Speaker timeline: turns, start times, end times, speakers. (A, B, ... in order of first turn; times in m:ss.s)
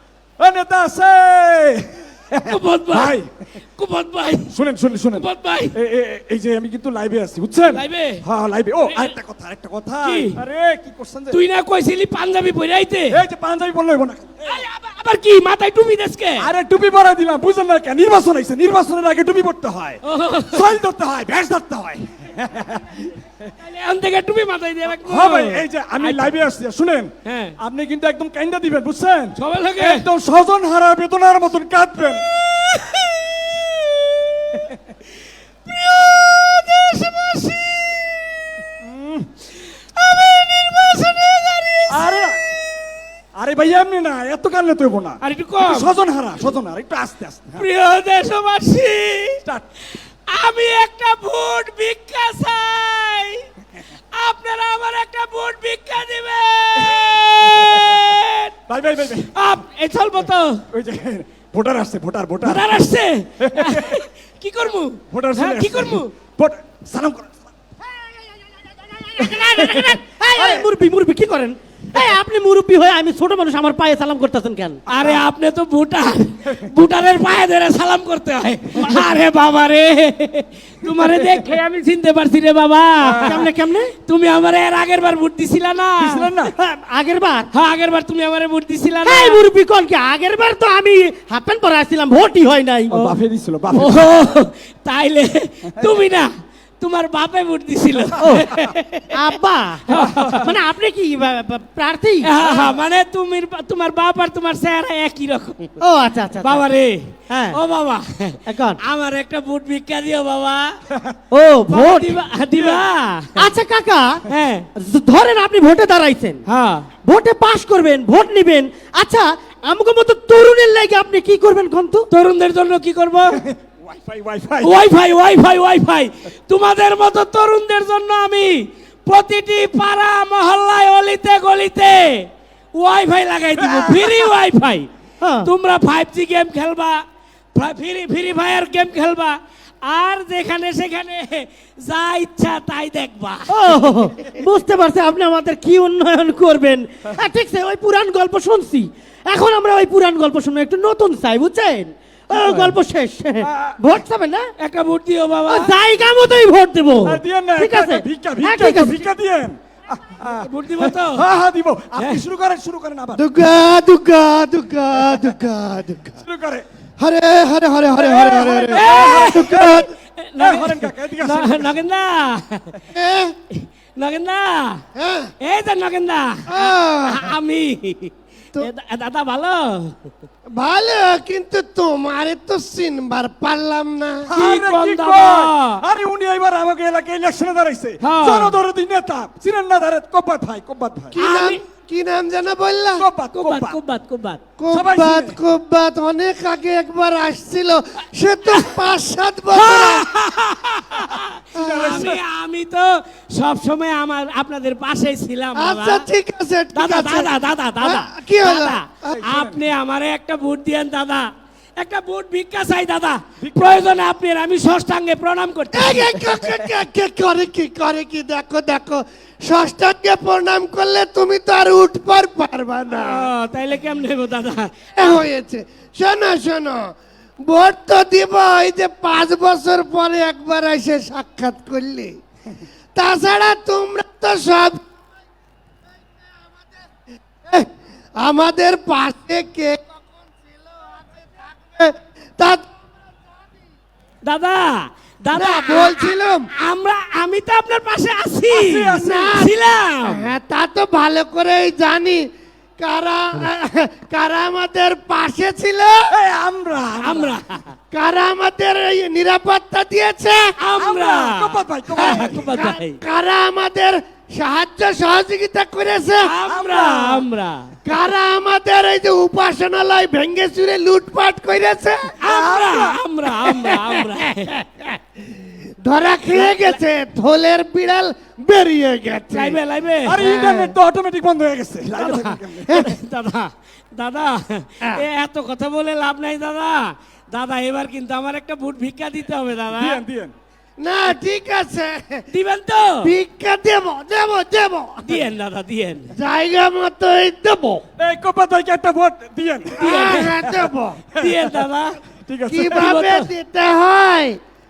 0:00.4-0:03.3 A
0:02.4-0:03.1 B
0:03.7-0:04.5 B
0:04.5-0:11.4 A
0:05.2-0:05.7 B
0:07.7-0:08.2 B
0:10.0-0:10.4 B
0:11.3-0:13.2 B
0:13.1-0:14.6 A
0:14.4-0:16.5 B
0:16.4-0:23.0 A
0:20.0-0:20.7 B
0:23.6-0:26.3 B
0:25.0-0:32.2 A
0:27.2-0:27.6 B
0:29.4-0:30.1 B
0:32.4-0:33.8 B
0:34.5-0:34.8 B
0:35.6-0:38.2 B
0:38.8-0:39.3 A
0:39.6-0:42.0 B
0:41.9-0:42.4 A
0:43.3-0:47.6 A
0:45.2-0:45.9 B
0:47.6-0:49.4 B
0:50.3-0:53.4 B
0:54.1-0:58.5 B
0:56.9-0:57.9 A
0:58.7-0:59.3 A
0:59.3-1:00.6 B
1:00.7-1:02.8 A
1:02.4-1:06.1 B
1:03.4-1:04.0 A
1:05.1-1:07.4 A
1:09.1-1:09.9 B
1:09.2-1:09.8 A
1:09.6-1:14.8 C
1:14.9-1:23.4 B
1:14.9-1:15.2 A
1:23.0-1:23.5 A
1:23.2-1:23.9 C
1:24.0-1:26.3 B
1:26.0-1:26.5 A
1:26.4-1:27.5 C
1:27.5-1:29.4 B
1:29.0-1:33.2 C
1:32.9-1:34.0 A
1:33.7-1:36.3 B
1:36.8-1:39.2 B
1:38.2-1:38.5 C
1:39.1-1:39.8 C
1:39.9-1:40.5 B
1:40.1-1:40.4 A
1:40.4-1:42.3 C
1:42.2-1:45.8 B
1:42.4-1:42.7 A
1:45.8-1:46.6 C
1:46.4-1:50.7 B
1:47.3-1:47.6 C
1:48.4-1:48.8 C
1:51.3-1:52.2 C
1:51.7-1:53.4 B
1:52.6-1:52.8 A
1:53.4-1:54.2 C
1:54.3-1:54.6 B
1:54.8-1:56.4 C
1:56.5-1:56.9 B
1:57.0-2:02.0 C
2:02.1-2:03.4 B
2:03.3-2:04.8 A
2:04.6-2:14.9 B
2:13.6-2:14.3 A
2:15.2-2:15.5 C
2:15.4-2:17.0 B
2:17.5-2:23.5 B
2:23.5-2:34.5 C
2:32.3-2:32.8 A
2:33.4-2:33.8 A
2:34.6-2:35.7 B
2:35.5-2:39.0 C
2:37.0-2:43.3 A
2:40.3-2:41.3 B
2:43.2-2:46.2 D
2:46.2-2:46.6 A
2:47.0-2:49.9 D
2:48.0-2:49.8 A
2:48.8-2:52.8 B
2:50.4-2:51.7 A
2:52.9-2:53.3 D
2:53.5-2:54.8 B
2:55.0-2:55.3 D
2:55.4-3:00.0 B
2:56.5-2:57.4 D
3:00.5-3:04.3 D
3:04.3-3:11.2 A
3:04.4-3:05.8 B
3:08.0-3:08.6 B
3:11.1-3:13.0 D
3:11.2-3:11.6 B
3:13.0-3:13.8 A
3:13.3-3:14.4 B
3:14.6-3:20.1 D
3:14.7-3:15.4 A
3:19.5-3:26.0 B
3:21.6-3:22.2 A
3:21.6-3:21.9 D
3:25.5-3:28.8 D
3:26.7-3:36.2 B
3:29.1-3:29.6 A
3:33.4-3:33.9 A
3:35.7-3:43.3 D
3:42.9-3:45.2 B
3:45.0-3:46.9 D
3:47.4-3:52.1 D
3:52.9-3:54.9 D
3:56.3-3:56.7 D
3:57.5-4:02.7 D
4:04.2-4:10.3 B
4:05.3-4:06.5 D
4:08.5-4:09.3 A
4:09.0-4:09.5 D
4:10.0-4:12.3 D
4:12.8-4:16.0 D
4:16.1-4:17.4 A
4:17.0-4:17.7 B
4:17.9-4:20.5 D
4:20.6-4:23.0 B
4:20.8-4:22.5 A
4:22.0-4:26.3 D
4:26.2-4:27.7 B
4:26.4-4:27.2 A
4:27.8-4:32.1 D
4:32.2-4:34.5 B
4:32.2-4:33.0 A
4:33.6-4:34.0 D
4:35.8-4:39.6 D
4:39.3-4:40.2 B
4:40.0-4:42.8 A
4:40.2-4:40.7 D
4:42.0-4:50.0 B
4:49.7-4:50.3 A
4:50.8-4:52.3 D
4:52.3-4:53.1 B
4:53.0-4:55.2 D
4:55.0-4:56.1 B
4:56.1-4:57.8 D
4:58.0-5:01.5 A
4:59.8-5:00.4 B
4:59.8-5:01.0 D
5:01.2-5:02.0 B
5:02.2-5:02.9 A
5:02.5-5:04.4 D
5:02.7-5:03.3 B